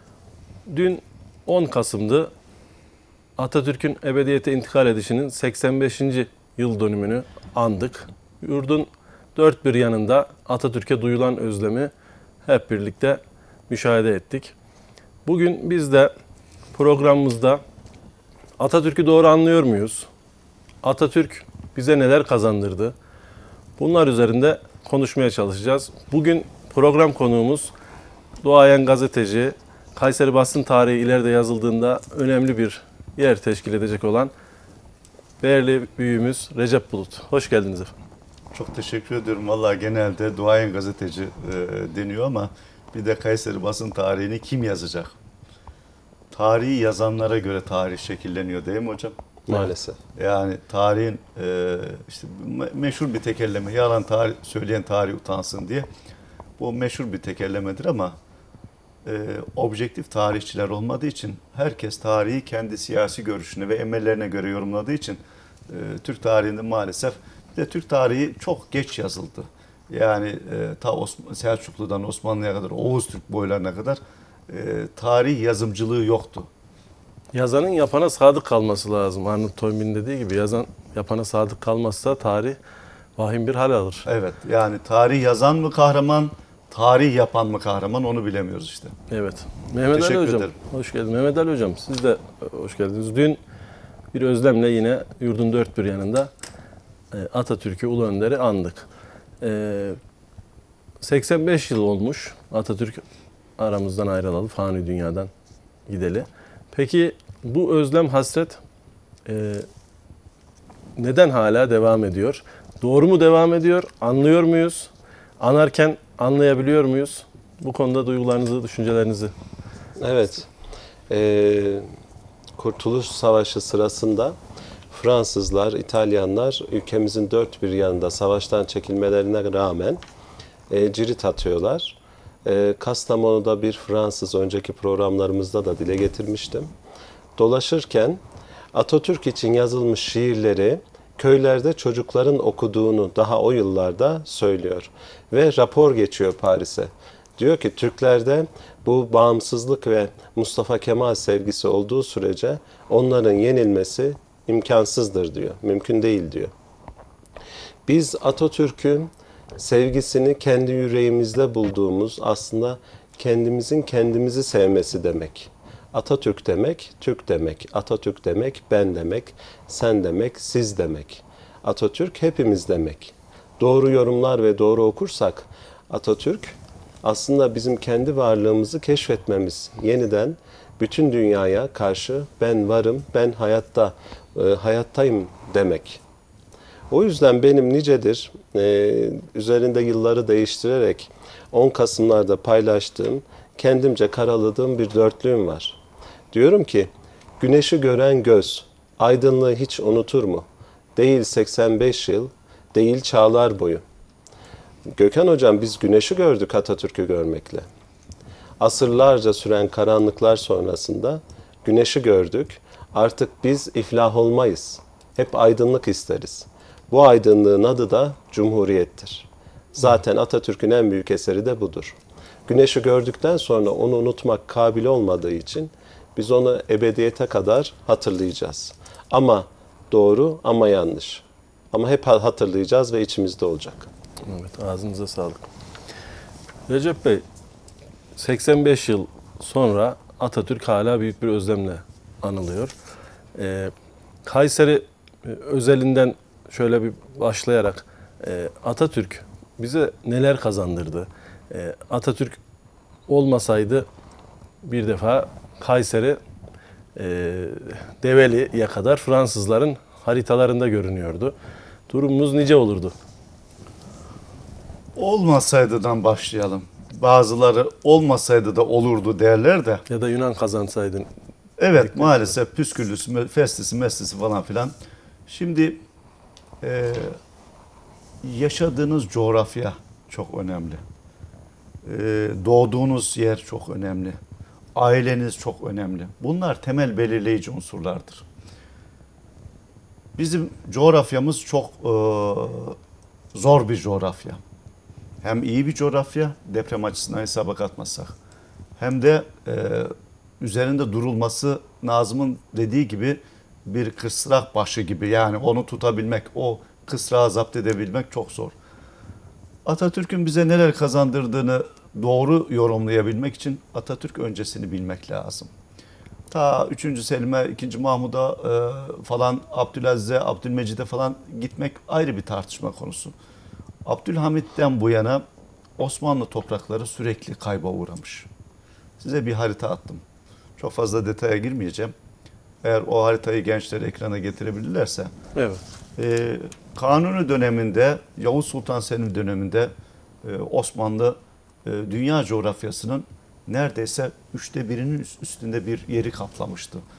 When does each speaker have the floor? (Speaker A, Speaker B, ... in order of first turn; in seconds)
Speaker A: 0.7-2.3, 3.4-11.9, 12.4-14.5, 15.2-16.1, 16.7-17.6, 18.6-20.1, 20.8-22.9, 23.8-27.7, 28.4-34.3, 35.4-37.9, 77.3-82.6, 83.2-84.1, 89.1-93.4, 94.1-96.3, 97.1-98.9, 99.4-100.0, 101.0-103.0, 103.6-105.3, 105.9-108.6, 109.3-109.7, 111.0-119.3, 234.2-235.4, 236.7-237.2, 238.2-242.7, 243.3-243.7, 244.2-252.4, 253.1-253.9, 254.6-256.2, 257.0-261.3, 261.9-262.9, 269.9-271.1, 271.8-272.3, 335.4-335.6
Speaker B: 38.5-45.1, 46.3-49.1, 50.2-55.9, 56.6-58.2, 59.0-76.5, 84.1-89.0, 89.9-90.5, 265.0-269.8, 271.6-274.7, 275.3-275.8, 276.6-277.2, 278.2-280.8, 281.9-284.2, 284.8-288.2, 290.2-292.8, 293.3-294.4, 295.2-298.1, 298.8-308.5, 309.6-315.5, 316.3-323.2, 323.9-325.2, 325.8-328.3, 329.0-330.0, 330.6-331.9, 332.6-335.1, 336.0-339.7, 340.2-346.8
Speaker C: 49.5-50.0, 120.0-120.5, 121.1-121.9, 122.6-124.4, 124.9-130.0, 130.7-136.7, 137.4-138.2, 138.7-156.5, 157.9-186.0, 186.9-195.8, 196.3-203.8, 204.9-207.7, 208.6-233.9